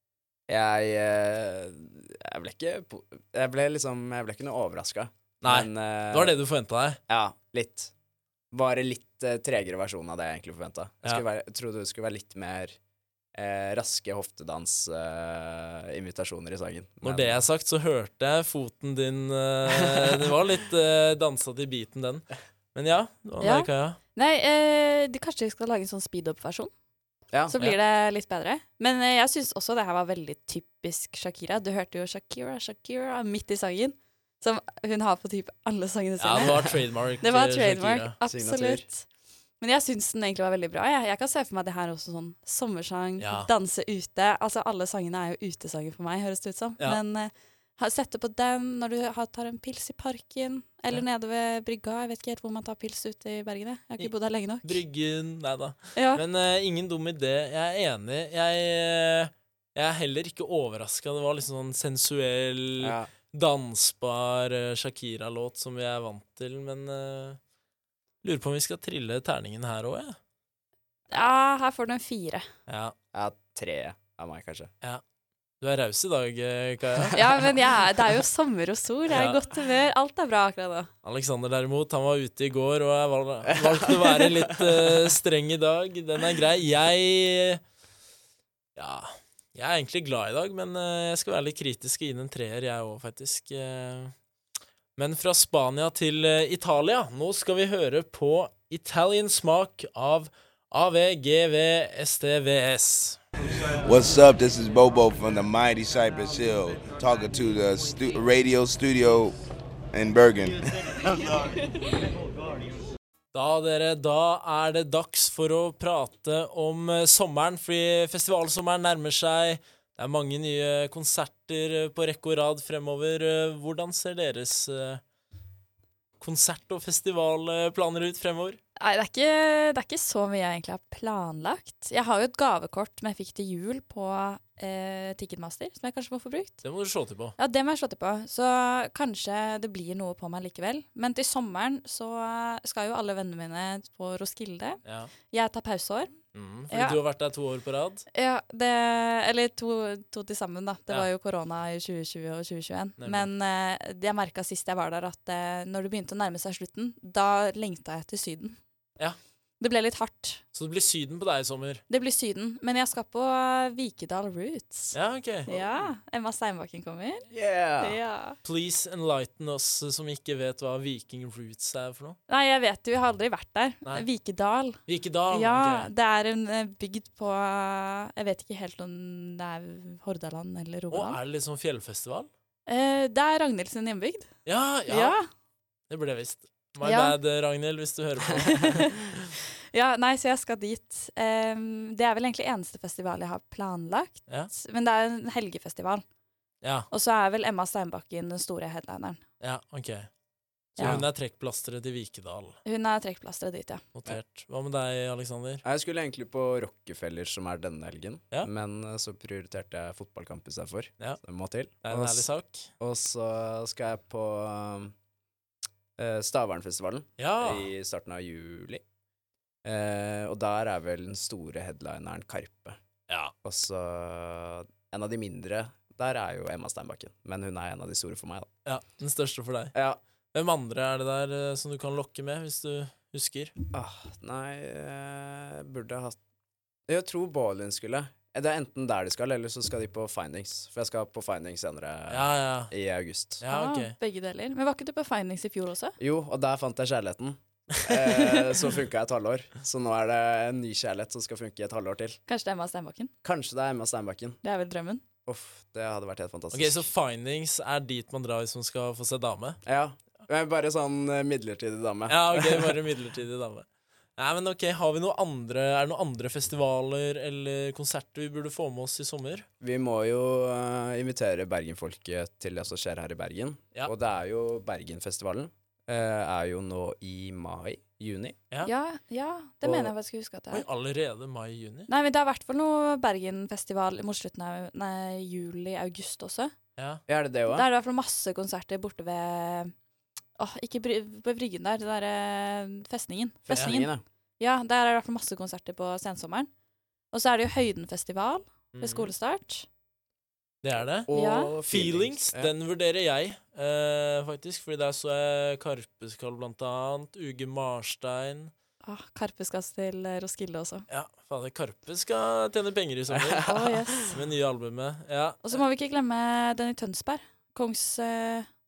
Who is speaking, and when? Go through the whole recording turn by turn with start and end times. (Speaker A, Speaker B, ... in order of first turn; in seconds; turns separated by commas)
Speaker A: 0.5-6.3, Speaker B: 5.4-7.0, Speaker A: 7.1-7.9, Speaker A: 8.5-12.8, Speaker A: 13.3-17.4, Speaker B: 17.0-24.0, Speaker A: 19.8-20.3, Speaker C: 23.4-26.7, Speaker C: 27.5-39.0, Speaker B: 36.2-38.1, Speaker A: 38.2-38.9, Speaker C: 39.6-54.8, Speaker B: 43.2-43.5, Speaker B: 54.6-67.4, Speaker C: 55.9-56.2, Speaker A: 62.8-63.1, Speaker B: 68.2-70.2, Speaker C: 71.1-72.5, Speaker B: 72.7-72.9, Speaker A: 73.1-74.7, Speaker B: 75.6-77.4, Speaker C: 77.1-80.9, Speaker B: 79.1-79.4, Speaker B: 81.0-87.6, Speaker A: 83.5-85.1, Speaker B: 88.8-94.1, Speaker B: 95.0-103.2, Speaker D: 103.8-109.3, Speaker D: 109.9-110.7, Speaker B: 113.3-125.0, Speaker B: 126.2-128.6, Speaker C: 128.8-136.6, Speaker B: 136.6-137.3, Speaker C: 137.4-144.8, Speaker B: 144.8-145.1, Speaker C: 145.3-146.1, Speaker B: 146.3-148.1, Speaker C: 146.7-147.0, Speaker C: 148.1-158.6, Speaker B: 153.0-153.3, Speaker C: 159.6-160.4, Speaker B: 160.5-161.8, Speaker C: 161.9-167.2, Speaker B: 164.9-165.5, Speaker A: 167.3-168.0, Speaker C: 167.8-168.4, Speaker B: 168.4-172.2, Speaker C: 172.3-174.8, Speaker B: 174.9-175.9, Speaker C: 175.3-181.2, Speaker B: 180.9-182.3, Speaker C: 182.7-184.3, Speaker B: 184.4-185.2, Speaker C: 184.9-185.2, Speaker B: 185.9-189.2, Speaker C: 186.8-187.2, Speaker C: 188.4-188.9, Speaker C: 189.7-196.0, Speaker B: 196.6-196.9, Speaker C: 196.9-199.2, Speaker B: 199.4-200.1, Speaker B: 200.8-202.6, Speaker A: 200.8-201.0, Speaker C: 202.6-203.8, Speaker B: 203.9-205.6, Speaker A: 205.6-212.3, Speaker B: 211.8-212.7, Speaker A: 212.8-214.9, Speaker A: 216.0-218.8, Speaker B: 217.2-217.7, Speaker A: 219.6-222.8, Speaker A: 223.4-228.5, Speaker B: 228.7-229.7, Speaker A: 229.7-230.0, Speaker B: 230.3-233.5, Speaker A: 233.7-236.2, Speaker A: 236.9-243.4, Speaker B: 242.1-242.7, Speaker B: 243.4-243.9, Speaker C: 243.5-246.0, Speaker A: 246.0-252.2, Speaker C: 252.3-253.1, Speaker A: 253.2-254.4, Speaker C: 254.4-255.0, Speaker A: 255.2-256.9, Speaker B: 256.5-259.6, Speaker A: 259.6-262.7, Speaker B: 262.1-263.6, Speaker B: 264.2-269.4, Speaker A: 269.6-278.4, Speaker C: 278.6-280.6, Speaker A: 279.6-279.9, Speaker B: 280.5-281.9, Speaker C: 281.9-286.5, Speaker B: 286.8-287.0, Speaker A: 287.1-287.6, Speaker C: 287.5-289.7, Speaker C: 290.4-296.5, Speaker A: 293.4-294.0, Speaker C: 297.1-299.6, Speaker B: 298.7-299.1, Speaker B: 300.6-301.1, Speaker A: 301.1-302.5, Speaker C: 301.1-301.5, Speaker B: 301.7-308.5, Speaker C: 308.8-310.9, Speaker B: 310.9-315.6, Speaker A: 313.1-313.6, Speaker C: 313.4-314.1, Speaker C: 315.4-318.5